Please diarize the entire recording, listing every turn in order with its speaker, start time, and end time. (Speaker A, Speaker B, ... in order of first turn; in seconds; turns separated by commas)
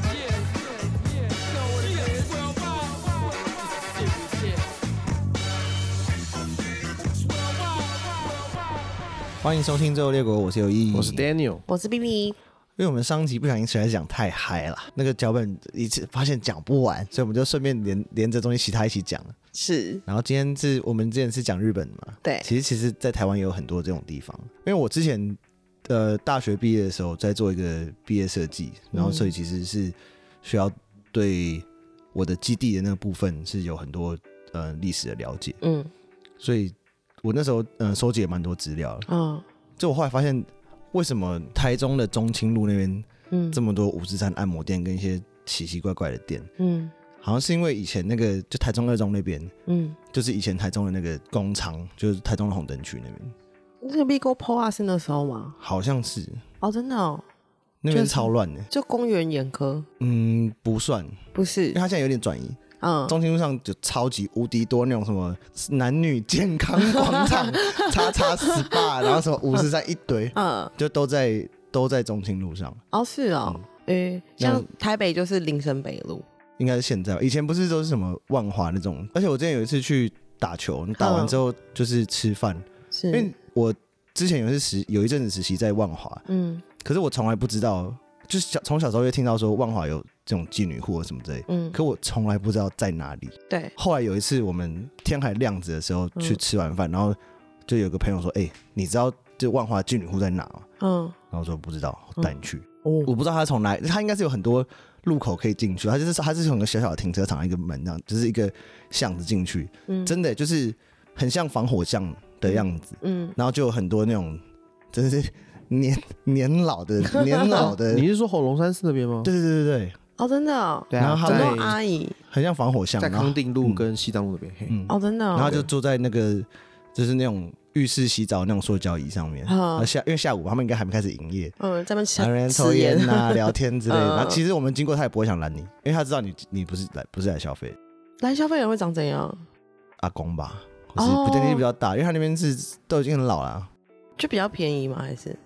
Speaker A: 9.4-11.3, Speaker B: 10.9-11.7, Speaker C: 11.7-12.4, Speaker A: 12.8-19.4, Speaker C: 19.5-20.0, Speaker A: 20.1-35.6, Speaker C: 22.2-22.5, Speaker C: 28.9-29.3, Speaker C: 35.6-35.9, Speaker A: 36.4-39.1, Speaker C: 39.1-39.4, Speaker A: 39.8-46.5, Speaker C: 43.3-43.6, Speaker C: 46.6-46.9, Speaker A: 47.2-49.5, Speaker C: 49.7-50.0, Speaker A: 50.1-53.3, Speaker C: 53.8-55.6, Speaker A: 55.6-56.4, Speaker C: 56.6-57.2, Speaker A: 57.8-58.7, Speaker C: 57.9-59.9, Speaker A: 60.0-61.2, Speaker C: 61.3-61.8, Speaker A: 61.7-72.8, Speaker C: 62.8-63.2, Speaker C: 66.8-69.2, Speaker C: 70.3-70.7, Speaker C: 72.9-76.2, Speaker A: 74.4-74.7, Speaker A: 76.6-86.2, Speaker C: 81.0-81.4, Speaker C: 82.9-83.3, Speaker C: 86.3-86.6, Speaker A: 86.8-100.7, Speaker C: 91.5-91.8, Speaker C: 93.5-93.7, Speaker C: 100.8-101.2, Speaker A: 101.3-114.4, Speaker C: 102.2-103.1, Speaker C: 109.9-110.2, Speaker C: 112.5-113.4, Speaker A: 114.9-118.1, Speaker C: 117.1-117.7, Speaker B: 117.6-119.3, Speaker A: 119.2-120.0, Speaker C: 120.2-122.2, Speaker B: 120.9-121.8, Speaker A: 121.0-121.6, Speaker A: 122.3-123.8, Speaker B: 123.0-124.8, Speaker A: 124.7-131.6, Speaker C: 124.9-125.6, Speaker C: 129.5-129.9, Speaker C: 131.6-134.4, Speaker A: 132.2-137.8, Speaker C: 138.2-139.4, Speaker A: 140.0-143.7, Speaker C: 141.0-141.7, Speaker C: 144.2-145.4